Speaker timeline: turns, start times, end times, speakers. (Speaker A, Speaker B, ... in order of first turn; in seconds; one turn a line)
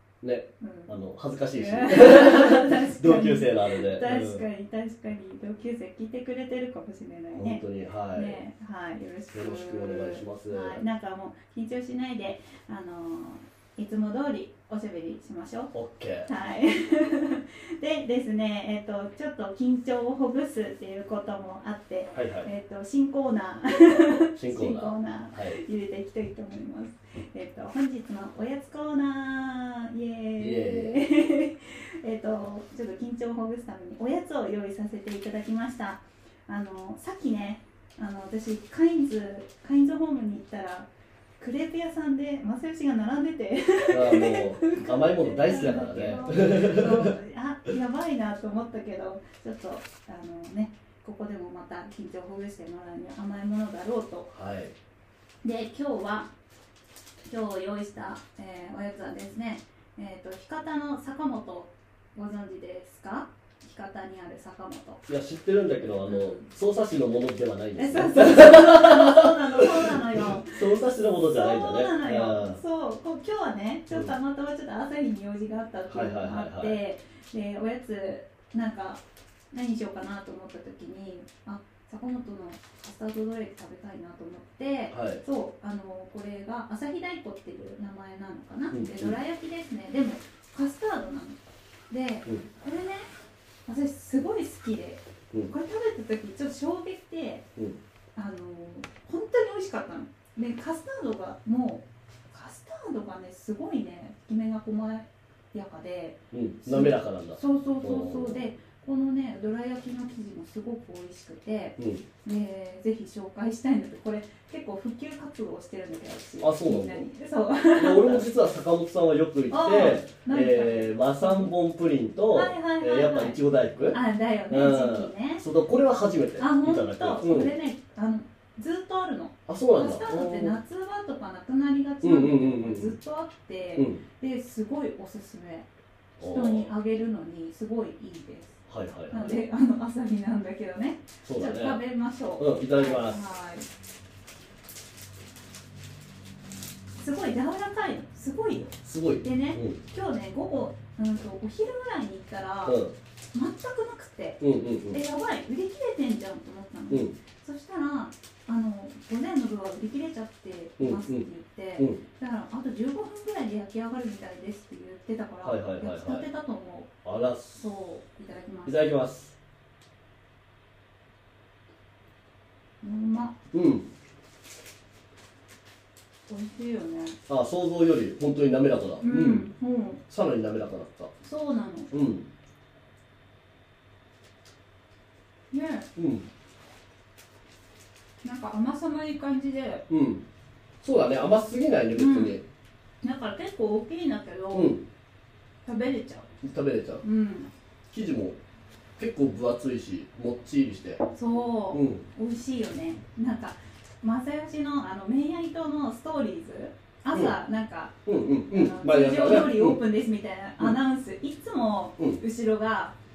Speaker A: 0.2-4.4
Speaker B: 0.6-0.9
Speaker B: 1.6-7.6
Speaker A: 7.3-8.4
Speaker B: 8.1-15.7
Speaker A: 9.3-10.8
Speaker A: 15.7-16.3
Speaker B: 16.3-54.3
Speaker A: 22.1-22.5
Speaker A: 24.3-25.6
Speaker A: 30.4-30.9
Speaker A: 43.9-47.1
Speaker A: 54.3-54.7
Speaker B: 55.4-56.3
Speaker B: 57.2-65.0
Speaker A: 65.1-72.6
Speaker B: 66.0-66.5
Speaker B: 67.8-91.4
Speaker A: 75.9-76.8
Speaker A: 84.9-85.2
Speaker A: 88.7-89.2
Speaker B: 91.9-93.1
Speaker B: 93.7-97.5
Speaker B: 98.2-118.3
Speaker A: 106.3-108.5
Speaker A: 111.8-112.0
Speaker A: 116.4-117.0
Speaker A: 117.8-124.0
Speaker B: 119.5-121.5
Speaker B: 122.3-123.4
Speaker B: 123.9-125.4
Speaker A: 124.5-127.5
Speaker B: 126.4-135.7
Speaker A: 129.5-130.6
Speaker A: 132.0-132.9
Speaker A: 133.8-134.0
Speaker A: 136.2-136.7
Speaker B: 136.2-143.7
Speaker A: 138.7-139.4
Speaker A: 141.2-141.8
Speaker A: 142.4-143.2
Speaker B: 147.0-152.8
Speaker A: 148.6-149.8
Speaker A: 152.7-152.9
Speaker B: 153.3-166.9
Speaker A: 154.4-155.0
Speaker A: 160.8-161.2
Speaker A: 165.4-166.2
Speaker A: 167.0-167.6
Speaker B: 167.5-168.8
Speaker A: 168.7-169.3
Speaker B: 172.8-173.3
Speaker A: 173.5-173.9
Speaker B: 176.3-177.2
Speaker A: 177.3-179.4
Speaker B: 179.0-180.0
Speaker A: 180.1-181.1
Speaker B: 181.2-181.9
Speaker A: 181.9-182.2
Speaker B: 185.5-185.9
Speaker A: 185.9-186.2
Speaker B: 188.2-189.8
Speaker A: 189.9-190.2
Speaker A: 190.8-192.4
Speaker B: 191.9-192.4
Speaker B: 193.0-194.8
Speaker A: 194.5-194.8
Speaker B: 195.6-196.3
Speaker A: 196.4-197.0
Speaker B: 197.0-197.5
Speaker A: 197.9-198.4
Speaker A: 199.0-201.0
Speaker B: 201.1-212.9
Speaker A: 201.7-202.0
Speaker A: 208.1-209.8